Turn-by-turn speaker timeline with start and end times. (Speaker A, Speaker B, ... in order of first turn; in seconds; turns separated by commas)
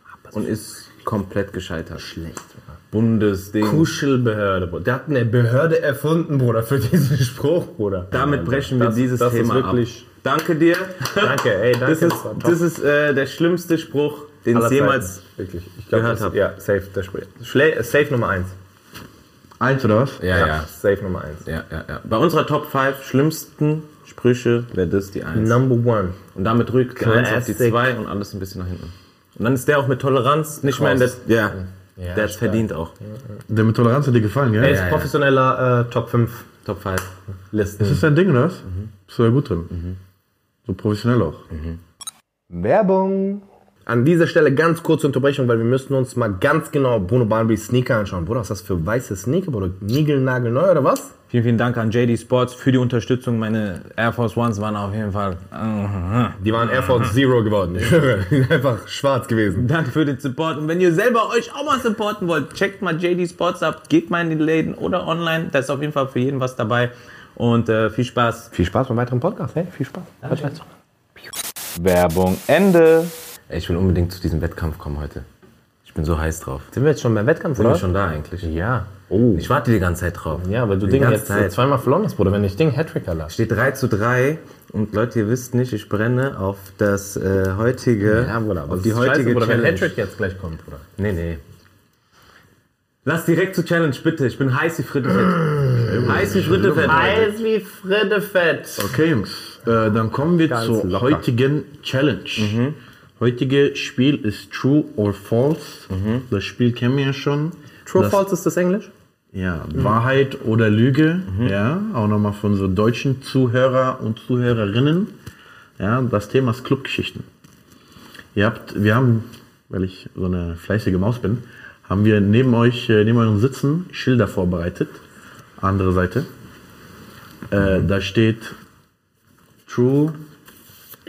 Speaker A: 0.3-2.0, Speaker B: 2.0-2.6, Speaker A: 2.9-3.9, Speaker B: 3.6-10.1, Speaker A: 8.1-15.2, Speaker B: 11.1-12.6, Speaker B: 14.5-18.5, Speaker A: 15.9-16.4, Speaker C: 19.6-20.2, Speaker A: 20.2-20.7, Speaker B: 20.2-21.4, Speaker A: 21.4-25.6, Speaker B: 25.3-26.2, Speaker A: 26.3-31.6, Speaker B: 26.9-27.9, Speaker B: 30.7-33.2, Speaker A: 32.1-32.9, Speaker C: 33.5-34.8, Speaker B: 34.6-36.5, Speaker A: 34.6-35.1, Speaker A: 36.6-37.1, Speaker B: 37.5-38.0, Speaker C: 37.8-39.7, Speaker C: 40.6-41.4, Speaker A: 41.5-41.8, Speaker B: 42.5-51.1, Speaker A: 51.3-57.1, Speaker B: 56.4-59.7, Speaker A: 59.5-68.5, Speaker B: 68.5-70.6, Speaker A: 71.7-75.2, Speaker A: 75.8-76.7, Speaker B: 76.7-77.8, Speaker A: 77.6-78.5, Speaker B: 78.4-79.5, Speaker A: 79.3-81.5, Speaker B: 80.3-83.3, Speaker A: 83.3-89.9, Speaker B: 88.0-90.8, Speaker A: 91.0-91.4, Speaker A: 93.0-97.3, Speaker C: 95.8-97.3, Speaker B: 96.8-98.9, Speaker C: 98.8-102.6, Speaker B: 100.5-101.2, Speaker A: 102.4-102.8, Speaker C: 103.2-108.2, Speaker A: 105.9-106.2, Speaker B: 107.8-108.9, Speaker C: 109.3-115.1, Speaker C: 115.8-117.2, Speaker C: 118.3-125.0, Speaker C: 125.6-126.3, Speaker C: 127.5-128.6, Speaker C: 129.7-130.2